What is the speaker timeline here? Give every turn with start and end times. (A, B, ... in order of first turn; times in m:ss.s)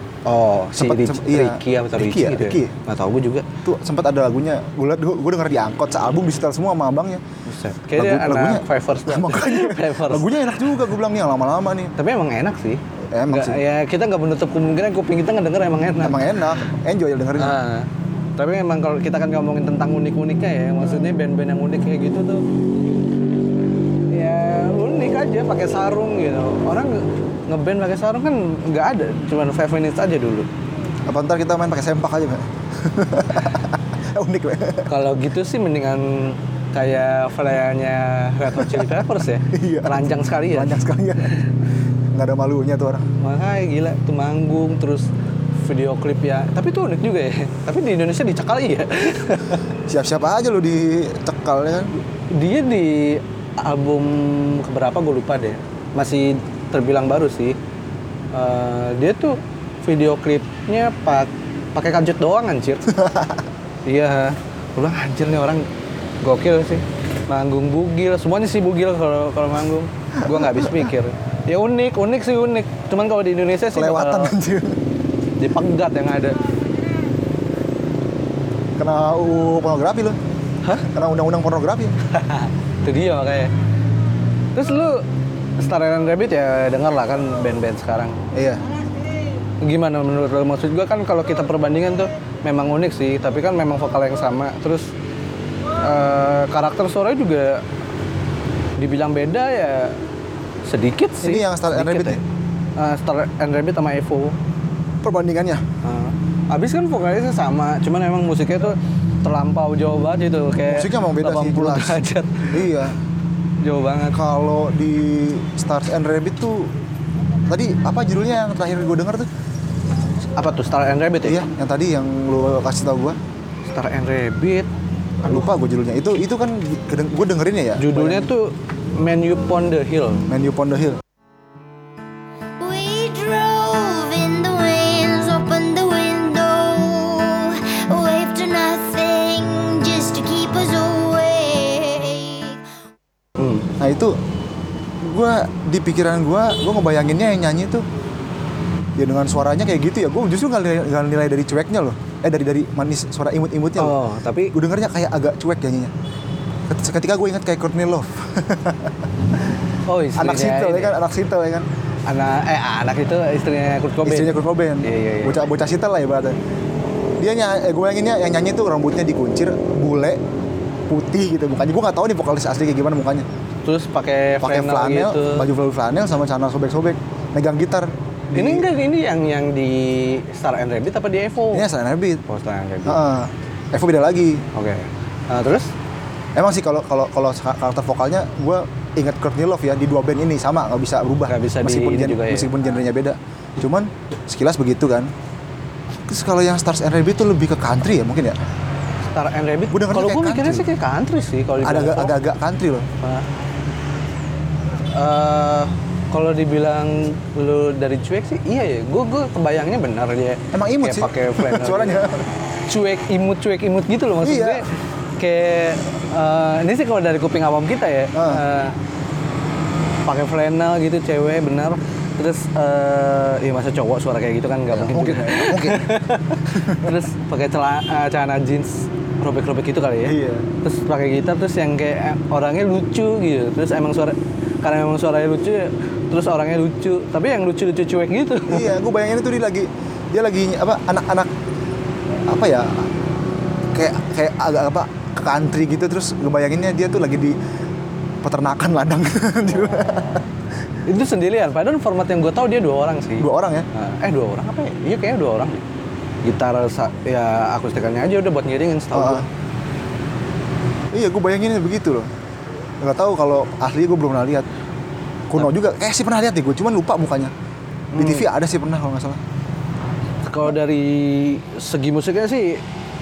0:00.2-0:03.5 A
0:00.8-0:02.7 B
0:03.6-0:07.2 B
0:07.5-0:10.8 A
0:07.9-0:11.9 B
0:12.0-0:16.4 A
0:13.1-0:13.6 B
0:16.0-0:17.6 B
0:17.4-0:22.4 A
0:24.1-0:30.5 A
0:31.1-0:34.9 B
0:34.9-0:41.5 A
0:38.5-0:41.4 B
0:42.1-0:43.1 B
0:43.2-0:45.1 A
0:45.6-0:49.6 A
0:49.9-0:52.0 B
0:52.3-0:57.6 A
0:58.3-1:03.0 A
1:03.0-1:03.3 B
1:03.9-1:05.6 A
1:06.2-1:14.4 A
1:10.2-1:10.8 B
1:13.7-1:14.8 B
1:15.4-1:16.4 A
1:18.8-1:20.2 B
1:20.8-1:21.9 B
1:22.1-1:23.5 A
1:24.5-1:25.0 A
1:25.6-1:28.2 A
1:28.3-1:28.6 B
1:29.6-1:34.9 A
1:35.8-1:37.6 A
1:38.8-1:40.0 A
1:40.6-1:42.2 A
1:41.2-1:42.2 B
1:42.8-1:44.4 A
1:45.0-1:45.6 B
1:45.8-1:52.7 A
1:50.6-1:53.0 B
1:53.6-1:54.2 A
1:54.1-1:56.7 B
1:57.5-1:59.3 B
2:00.4-2:01.4 A
2:01.2-2:03.2 B
2:03.7-2:04.7 A
2:05.2-2:08.3 B
2:07.8-2:10.3 A
2:10.3-2:11.0 B
2:12.6-2:22.6 C
2:23.4-2:23.7 A
2:23.8-2:24.1 B
2:25.0-2:27.8 B
2:29.0-2:34.0 B
2:33.8-2:34.5 A
2:34.5-2:35.9 B
2:36.7-2:39.0 B
2:39.9-2:41.0 A
2:40.2-2:41.7 B
2:42.1-2:45.4 A
2:44.0-2:46.4 B
2:47.2-2:50.2 B
2:50.9-2:53.2 B
2:53.6-2:55.5 A
2:54.4-2:58.7 B
2:58.3-3:01.7 A
3:01.5-3:02.2 B
3:02.2-3:03.0 A
3:02.8-3:04.4 B
3:04.5-3:05.7 A
3:06.4-3:15.1 B
3:11.3-3:12.5 A
3:16.0-3:18.4 B
3:19.1-3:22.2 A
3:19.7-3:20.7 B
3:21.6-3:22.9 B
3:23.0-3:23.2 A
3:24.9-3:32.0 A
3:30.5-3:32.3 B
3:32.7-3:34.7 A
3:34.2-3:34.6 B
3:35.2-3:38.8 A
3:38.1-3:38.4 B
3:40.0-3:58.7 A
3:44.7-3:45.9 B
3:46.5-3:46.8 B
3:50.0-3:50.5 B
3:58.5-4:01.3 B
4:02.3-4:02.9 B
4:03.7-4:07.4 B
4:08.2-4:10.2 B
4:10.9-4:15.6 A
4:13.2-4:13.7 B
4:16.2-4:19.3 A
4:18.9-4:19.2 B
4:20.9-4:22.1 B
4:22.8-4:24.5 B
4:25.3-4:27.3 B
4:27.9-4:28.3 A
4:28.0-4:29.2 B
4:30.2-4:32.6 A